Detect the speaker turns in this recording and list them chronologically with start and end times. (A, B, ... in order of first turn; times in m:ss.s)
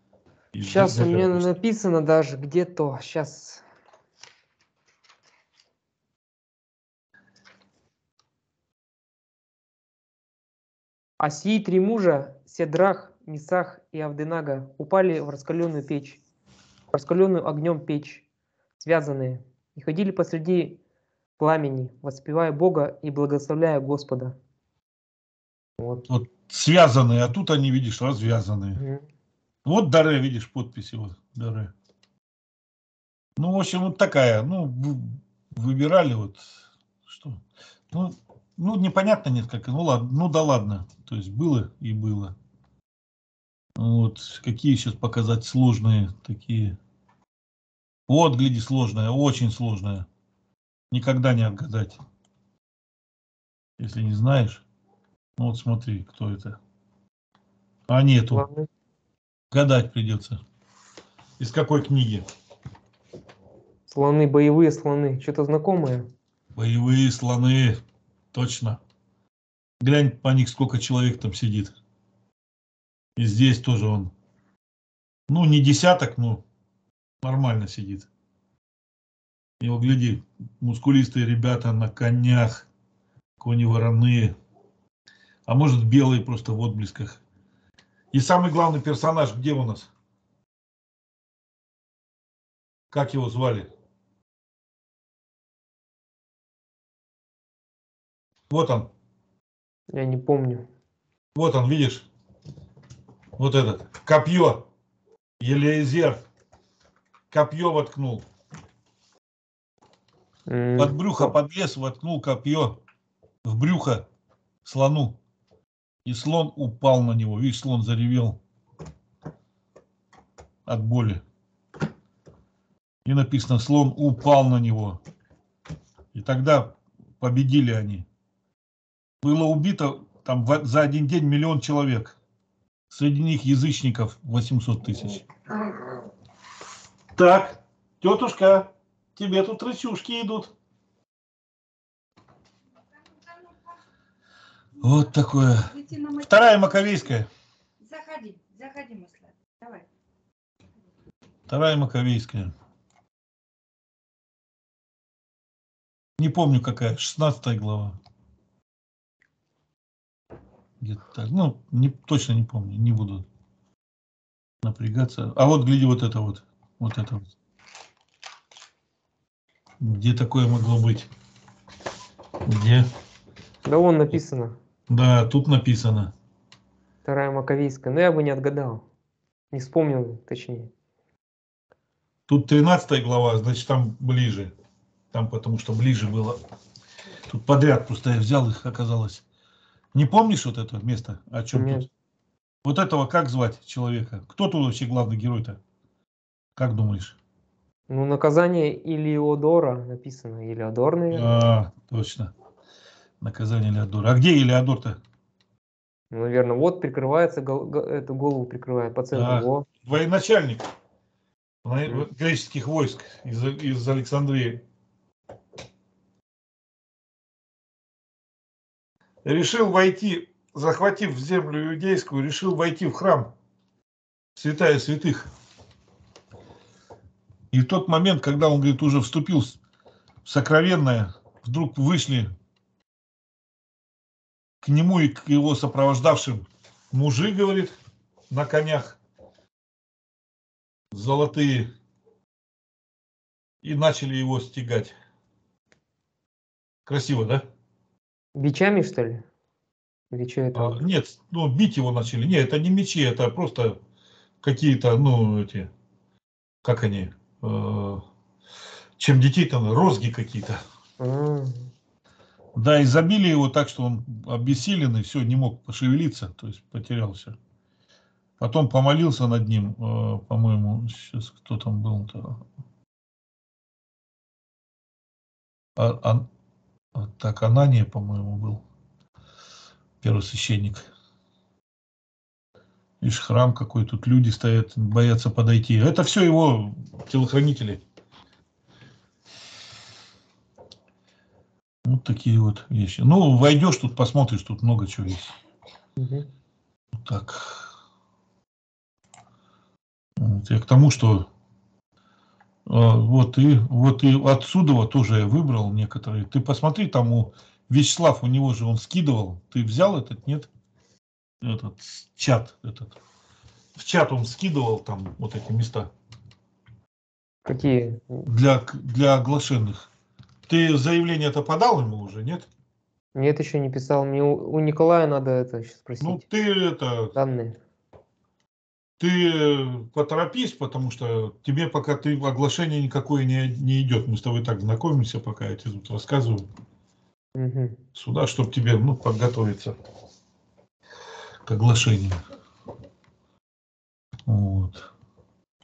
0:00.5-0:01.5 A
0:00.6-0:03.6 B
0:11.2-0:16.2 B
0:16.9-0:18.2 B
0:18.8-0:20.8 B
0:21.4-0:24.4 B
0:25.8-0:26.1 B
0:26.1-0:28.8 A
0:28.8-0:29.0 B
0:29.6-0:31.7 A
0:33.4-0:36.5 A
0:37.0-0:42.3 A
0:43.8-0:46.8 A
0:48.1-0:50.0 A
0:50.9-0:52.0 A
0:53.8-0:54.6 A
0:55.4-0:56.6 A
0:57.9-0:58.4 A
0:58.3-0:58.7 B
0:59.5-1:00.4 A
1:01.4-1:02.2 A
1:03.9-1:06.1 B
1:06.5-1:07.8 A
1:08.3-1:08.8 A
1:09.8-1:11.7 A
1:13.2-1:14.1 A
1:15.3-1:16.4 A
1:17.2-1:18.1 A
1:19.6-1:22.7 A
1:23.4-1:24.3 A
1:25.5-1:27.2 A
1:28.1-1:29.9 A
1:32.9-1:33.7 A
1:38.5-1:38.9 A
1:39.9-1:40.7 B
1:41.3-1:42.1 A
1:43.4-1:44.6 A
1:45.4-1:46.2 A
1:47.3-1:48.2 A
1:50.5-1:51.3 B
1:50.8-1:52.8 A
1:53.4-1:54.0 A
1:54.6-1:55.2 A
1:56.0-1:58.4 A
2:00.6-2:01.2 A
2:03.0-2:05.0 A
2:06.1-2:08.0 A
2:09.2-2:12.2 A
2:12.9-2:15.3 A
2:17.2-2:20.5 A
2:24.8-2:27.3 A
2:25.8-2:26.5 C
2:27.8-2:29.8 C
2:31.5-2:32.5 A
2:36.2-2:38.0 A
2:40.8-2:43.2 A
2:44.6-2:47.3 A
2:49.8-2:51.1 A
2:52.4-2:52.9 A
2:53.6-2:54.6 B
2:54.9-2:56.1 A
2:57.0-2:58.8 B
2:59.5-3:00.7 B
3:02.3-3:04.5 A
3:05.1-3:06.4 A
3:07.3-3:09.2 A
3:09.9-3:11.9 A
3:11.5-3:11.9 B
3:12.6-3:15.6 A
3:16.6-3:17.2 A
3:17.9-3:21.3 B
3:21.1-3:22.3 A
3:23.2-3:25.0 A
3:26.1-3:29.7 B
3:29.1-3:30.6 A
3:31.6-3:34.6 A
3:39.2-3:43.3 A
3:44.4-3:45.3 A
3:47.5-3:49.6 A
3:50.2-3:52.3 A
3:54.6-3:57.8 A
3:58.3-3:59.0 A
4:00.9-4:01.7 A
4:03.6-4:04.9 A
4:06.8-4:07.4 A
4:08.3-4:09.2 B
4:10.1-4:10.8 B
4:10.5-4:13.8 A
4:14.4-4:15.7 A
4:16.6-4:18.0 A
4:19.0-4:20.6 A
4:21.0-4:21.7 B
4:22.6-4:27.4 A
4:28.4-4:32.4 A
4:35.8-4:36.2 A
4:36.9-4:38.6 A
4:40.0-4:40.9 A
4:43.0-4:47.8 A
4:51.8-4:55.3 A
4:56.0-4:56.3 B
4:57.0-4:57.7 A
5:00.2-5:01.3 A
5:02.7-5:10.5 A
5:11.4-5:13.0 A
5:13.8-5:15.9 A
5:17.4-5:18.2 B
5:18.2-5:19.9 A
5:20.5-5:22.5 A
5:23.1-5:26.2 B
5:26.0-5:27.2 A
5:27.1-5:27.6 B
5:29.0-5:36.5 A
5:37.3-5:37.8 B
5:37.9-5:39.7 A
5:41.4-5:42.2 A
5:44.3-5:44.9 A